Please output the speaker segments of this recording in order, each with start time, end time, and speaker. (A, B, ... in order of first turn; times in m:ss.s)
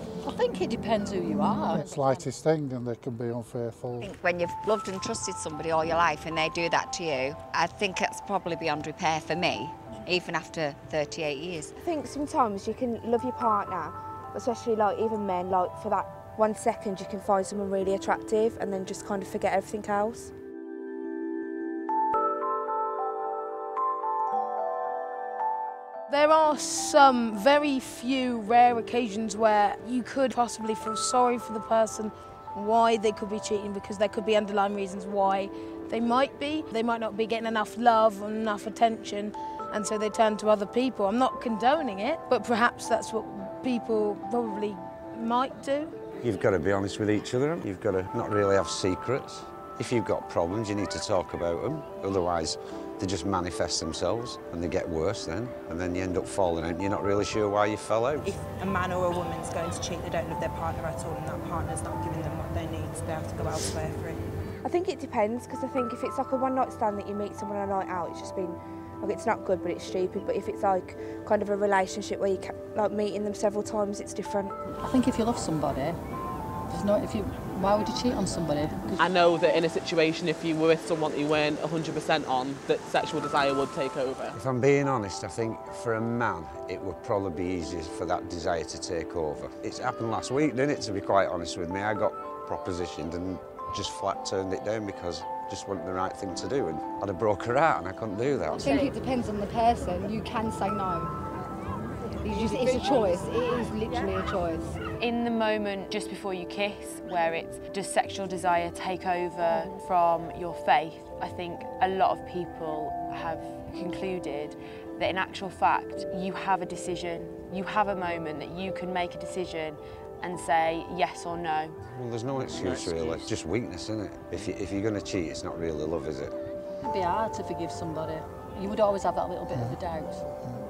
0:00.2-0:01.9 A
0:01.7-0:04.1 B
0:04.0-0:11.7 C
0:11.8-0:20.3 D
0:26.1-0:46.0 E
0:46.2-0:58.3 F
0:58.2-1:04.1 G
1:04.6-1:14.6 D
1:14.8-1:16.0 A
1:16.7-1:19.1 A
1:19.0-1:24.4 H
1:24.3-1:38.7 F
1:38.5-1:39.0 I
1:38.6-1:41.1 J
1:42.2-1:44.8 J
1:45.0-2:01.8 I
2:01.9-2:06.3 F
2:02.7-2:03.1 H
2:06.8-2:10.3 A